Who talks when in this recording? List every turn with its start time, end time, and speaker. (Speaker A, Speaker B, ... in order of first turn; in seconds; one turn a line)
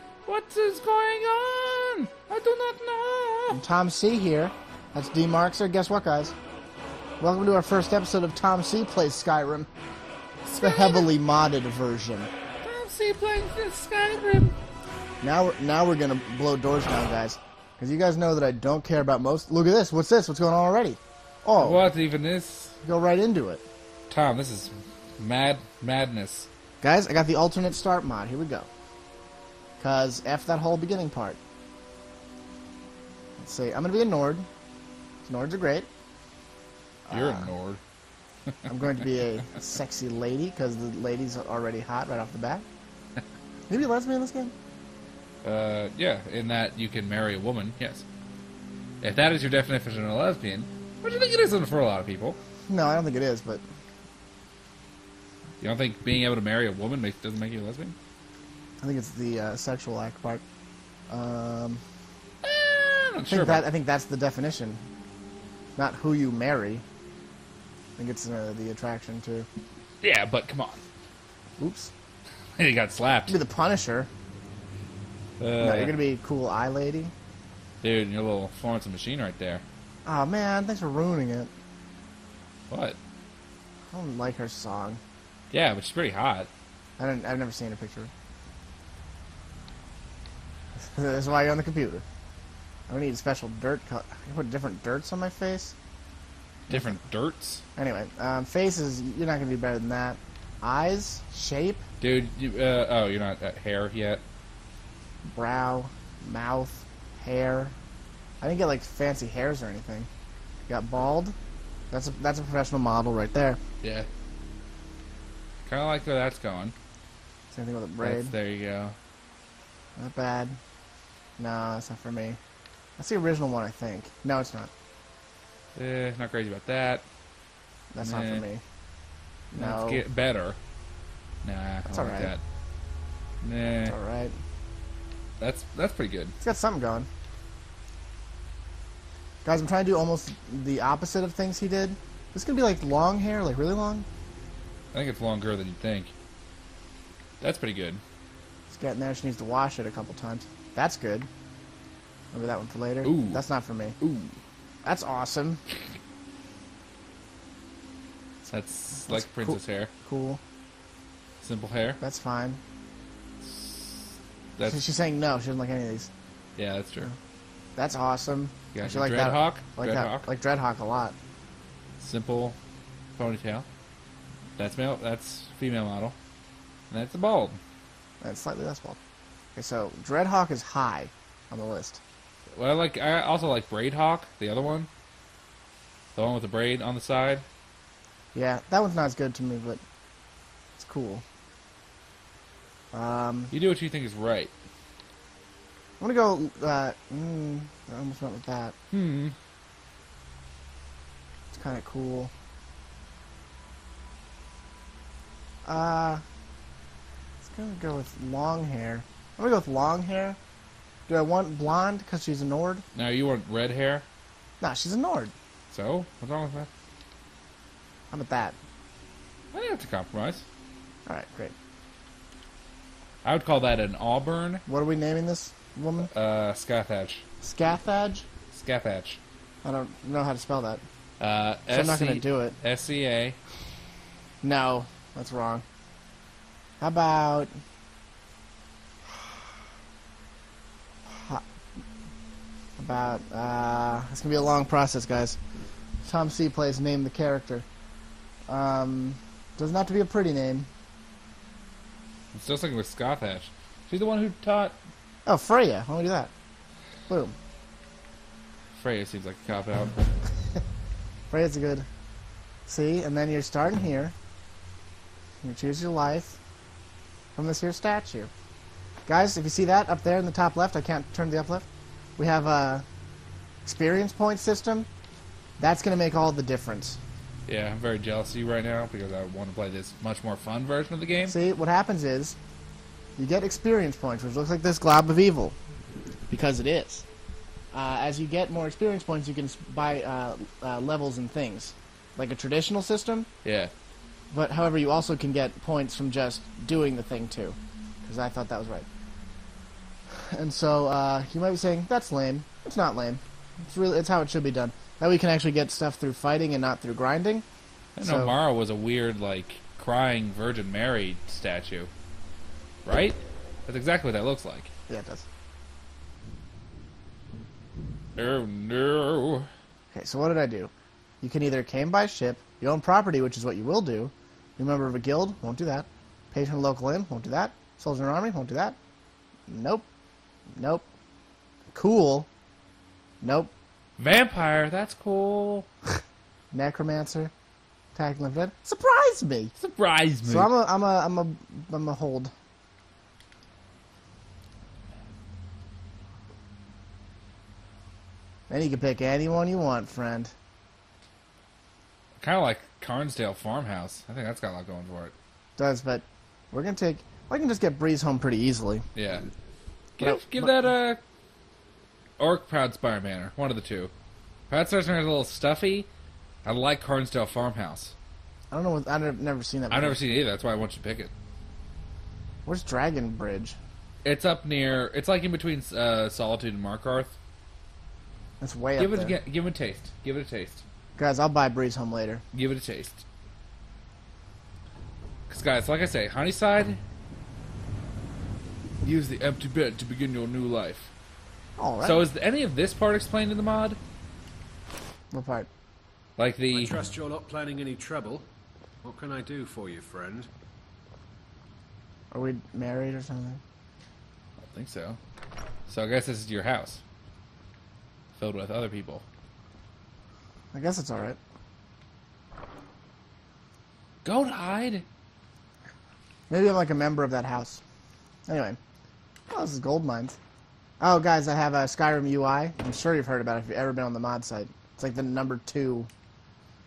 Speaker A: 0.3-3.6
Speaker B: 3.5-6.3
Speaker B: 7.2-9.7
Speaker A: 10.5-11.1
Speaker B: 10.6-12.3
Speaker A: 12.6-14.6
Speaker B: 15.2-21.9
Speaker A: 21.6-22.8
Speaker B: 22.8-23.6
Speaker A: 24.1-26.5
Speaker B: 26.8-28.7
Speaker B: 29.8-31.4
Speaker B: 33.4-34.5
Speaker B: 35.2-35.9
Speaker B: 37.1-37.5
Speaker A: 37.1-37.8
Speaker B: 38.7-42.7
Speaker B: 43.7-44.5
Speaker A: 45.4-48.0
Speaker A: 49.0-52.4
Speaker B: 52.7-53.6
Speaker A: 55.6-58.0
Speaker B: 58.8-60.4
Speaker B: 61.1-61.8
Speaker A: 62.4-63.6
Speaker B: 63.3-64.9
Speaker B: 65.8-66.8
Speaker B: 68.0-69.5
Speaker A: 70.0-70.8
Speaker B: 71.6-71.9
Speaker A: 72.6-73.4
Speaker B: 73.3-74.1
Speaker A: 75.4-76.0
Speaker B: 75.6-77.1
Speaker A: 77.8-79.6
Speaker B: 80.0-81.5
Speaker A: 82.7-83.0
Speaker B: 83.9-85.0
Speaker A: 85.5-86.5
Speaker B: 87.0-88.1
Speaker B: 90.8-92.0
Speaker B: 92.9-95.8
Speaker A: 96.7-97.6
Speaker B: 96.7-97.0
Speaker B: 97.8-101.8
Speaker A: 102.0-104.2
Speaker B: 105.3-107.8
Speaker B: 108.4-110.1
Speaker B: 110.7-111.4
Speaker B: 111.9-113.6
Speaker A: 113.8-114.1
Speaker A: 115.7-116.8
Speaker B: 117.5-118.3
Speaker A: 118.0-119.0
Speaker B: 120.0-120.6
Speaker B: 121.4-122.4
Speaker B: 123.0-124.7
Speaker A: 125.8-127.0
Speaker B: 127.9-128.6
Speaker A: 128.0-128.4
Speaker B: 129.5-130.1
Speaker A: 129.6-130.6
Speaker A: 131.4-132.4
Speaker B: 131.9-132.3
Speaker A: 133.4-133.9
Speaker B: 133.8-134.3
Speaker A: 135.4-136.4
Speaker B: 136.4-137.1
Speaker B: 139.4-144.1
Speaker A: 144.9-146.1
Speaker A: 147.4-148.0
Speaker B: 148.7-151.3
Speaker B: 152.3-154.0
Speaker A: 153.0-153.4
Speaker A: 154.0-154.4
Speaker B: 154.8-155.6
Speaker A: 158.5-159.9
Speaker B: 159.1-160.4
Speaker A: 161.4-162.0
Speaker B: 162.0-162.6
Speaker A: 163.4-164.8
Speaker B: 164.6-166.1
Speaker A: 166.6-167.1
Speaker B: 167.8-171.2
Speaker A: 168.7-170.3
Speaker A: 172.0-172.6
Speaker A: 173.2-173.7
Speaker A: 174.6-176.2
Speaker A: 176.9-177.6
Speaker B: 178.2-179.0
Speaker B: 179.6-182.0
Speaker A: 182.5-184.9
Speaker A: 186.2-187.4
Speaker B: 188.3-189.8
Speaker B: 190.8-191.2
Speaker B: 192.9-193.5
Speaker A: 193.5-194.5
Speaker B: 196.0-198.8
Speaker A: 198.9-199.3
Speaker B: 201.5-202.3
Speaker B: 205.7-206.2
Speaker B: 207.4-210.4
Speaker B: 211.1-212.8
Speaker A: 212.9-214.1
Speaker B: 214.6-215.3
Speaker A: 215.7-216.7
Speaker B: 218.1-218.6
Speaker A: 219.5-220.4
Speaker B: 221.1-221.6
Speaker A: 223.2-224.6
Speaker B: 224.7-226.1
Speaker A: 226.1-227.2
Speaker B: 227.4-228.3
Speaker A: 228.5-229.2
Speaker B: 229.6-230.8
Speaker A: 231.2-233.4
Speaker B: 231.7-232.6
Speaker B: 234.4-235.7
Speaker B: 236.8-237.5
Speaker B: 241.1-241.4
Speaker B: 242.8-245.4
Speaker B: 246.0-247.7
Speaker B: 248.5-250.7
Speaker A: 252.3-254.8
Speaker B: 255.3-256.3
Speaker B: 257.1-257.4
Speaker A: 258.8-260.2
Speaker B: 261.3-261.9
Speaker B: 262.7-264.1
Speaker B: 265.4-266.4
Speaker B: 267.4-268.3
Speaker B: 269.1-272.9
Speaker B: 273.6-274.9
Speaker B: 275.6-277.0
Speaker A: 277.5-281.4
Speaker B: 281.2-282.4
Speaker B: 283.2-285.6
Speaker B: 286.3-287.1
Speaker B: 287.7-293.3
Speaker A: 293.4-293.7
Speaker B: 294.3-298.9
Speaker B: 300.1-307.4
Speaker A: 308.0-311.9
Speaker B: 308.0-308.4
Speaker A: 312.9-314.7
Speaker B: 314.9-315.3
Speaker A: 318.2-319.5
Speaker B: 319.9-328.8
Speaker B: 329.5-329.9
Speaker B: 330.6-330.9
Speaker B: 331.7-332.3
Speaker B: 333.2-333.5
Speaker A: 334.0-335.7
Speaker B: 336.5-337.3
Speaker B: 337.9-339.5
Speaker A: 339.6-340.5
Speaker B: 340.2-342.3
Speaker B: 348.5-350.3
Speaker A: 352.2-355.1
Speaker B: 355.6-358.9
Speaker A: 358.9-359.3
Speaker A: 360.0-361.0
Speaker B: 360.0-360.7
Speaker A: 362.2-363.9
Speaker A: 364.5-365.9
Speaker A: 366.4-367.9
Speaker B: 368.5-370.0
Speaker A: 369.7-371.1
Speaker B: 372.5-373.6
Speaker A: 374.0-377.2
Speaker B: 378.4-379.2
Speaker A: 378.8-380.6
Speaker B: 381.0-382.2
Speaker A: 382.3-383.0
Speaker A: 385.3-386.8
Speaker A: 388.8-390.9
Speaker B: 391.6-392.1
Speaker A: 391.8-393.8
Speaker B: 395.1-395.5
Speaker A: 396.2-396.8
Speaker C: 396.5-398.3
Speaker C: 398.8-400.3
Speaker B: 402.1-403.4
Speaker A: 404.4-405.0
Speaker A: 405.7-406.8
Speaker A: 408.2-409.1
Speaker B: 410.5-411.2
Speaker A: 414.0-414.9
Speaker B: 416.3-417.6
Speaker B: 418.3-418.6
Speaker B: 419.3-420.2
Speaker B: 420.8-425.9